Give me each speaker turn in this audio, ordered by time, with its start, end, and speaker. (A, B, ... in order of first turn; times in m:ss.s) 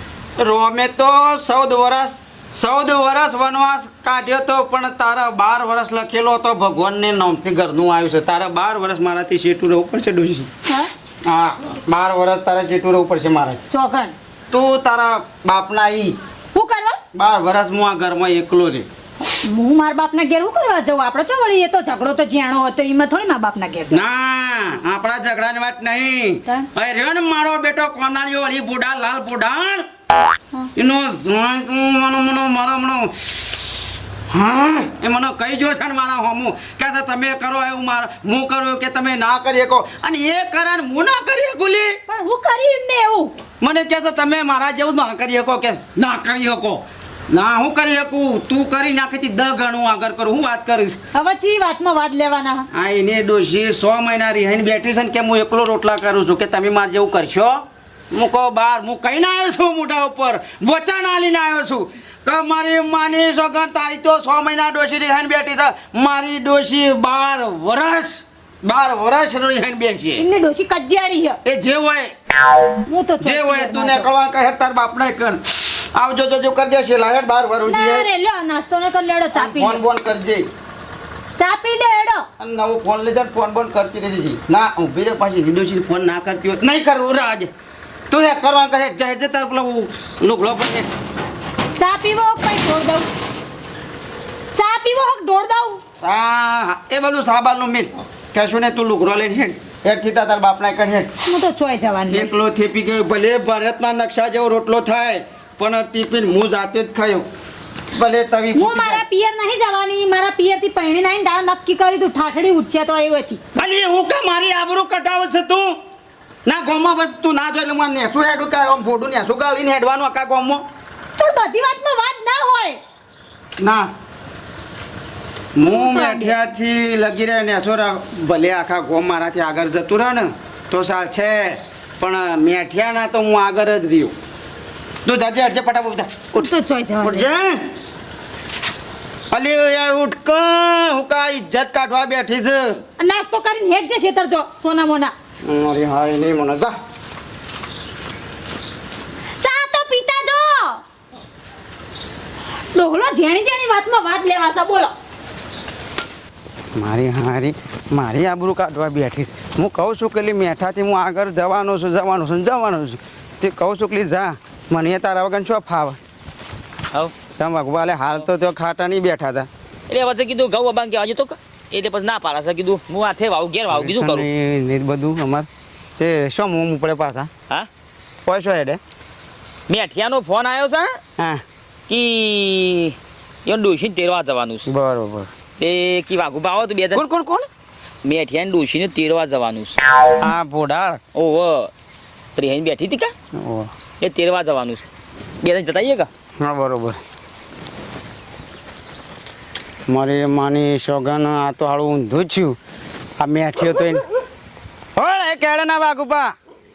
0:00.4-0:10.5 A
0:11.2-0:13.6 A
0:13.7-0:14.1 B
0:14.5-0:16.2 A
0:16.5-0:17.0 B
0:17.1-0:18.9 A
0:19.2-0:24.0 B
0:23.9-0:29.9 A
0:30.7-0:33.1 A
0:34.3-0:42.0 A
0:42.1-0:43.3 B
0:43.6-0:51.0 A
0:51.1-0:52.6 B
0:52.7-1:10.2 A
1:10.2-1:11.4 B
1:11.4-1:12.1 A
1:12.8-1:14.1 B
1:13.2-1:18.1 A
1:17.6-1:19.8 B
1:19.3-1:20.5 A
1:21.4-1:22.2 B
1:22.4-1:27.5 A
1:28.1-1:30.9 A
1:31.8-1:33.1 B
1:34.5-1:35.8 B
1:36.0-1:41.1 A
1:41.2-1:42.3 B
1:42.1-1:47.3 A
1:47.9-1:49.0 A
1:48.5-1:53.4 B
1:53.5-1:55.8 A
1:56.4-2:00.6 A
2:01.2-2:02.8 B
2:03.6-2:03.9 A
2:05.5-2:14.2 A
2:05.6-2:06.4 B
2:15.0-2:17.7 A
2:16.3-2:17.3 B
2:19.3-2:22.8 A
2:23.0-2:25.1 B
2:25.4-2:26.7 A
2:29.4-2:30.8 B
2:32.7-2:34.9 B
2:36.7-2:46.0 A
2:46.9-2:47.2 C
2:47.2-2:49.5 A
2:49.9-2:54.3 C
2:53.7-2:57.3 A
2:58.2-2:58.8 A
2:59.7-3:01.0 C
3:01.2-3:01.4 A
3:01.9-3:02.9 C
3:03.4-3:04.7 C
3:04.6-3:05.3 A
3:05.6-3:07.0 C
3:06.9-3:07.5 A
3:08.0-3:09.8 C
3:10.2-3:11.0 A
3:11.1-3:11.7 C
3:12.4-3:13.1 C
3:13.3-3:13.7 A
3:14.0-3:14.8 C
3:15.4-3:16.1 C
3:16.4-3:17.0 A
3:19.9-3:22.6 A
3:23.2-3:24.0 A
3:24.9-3:26.4 A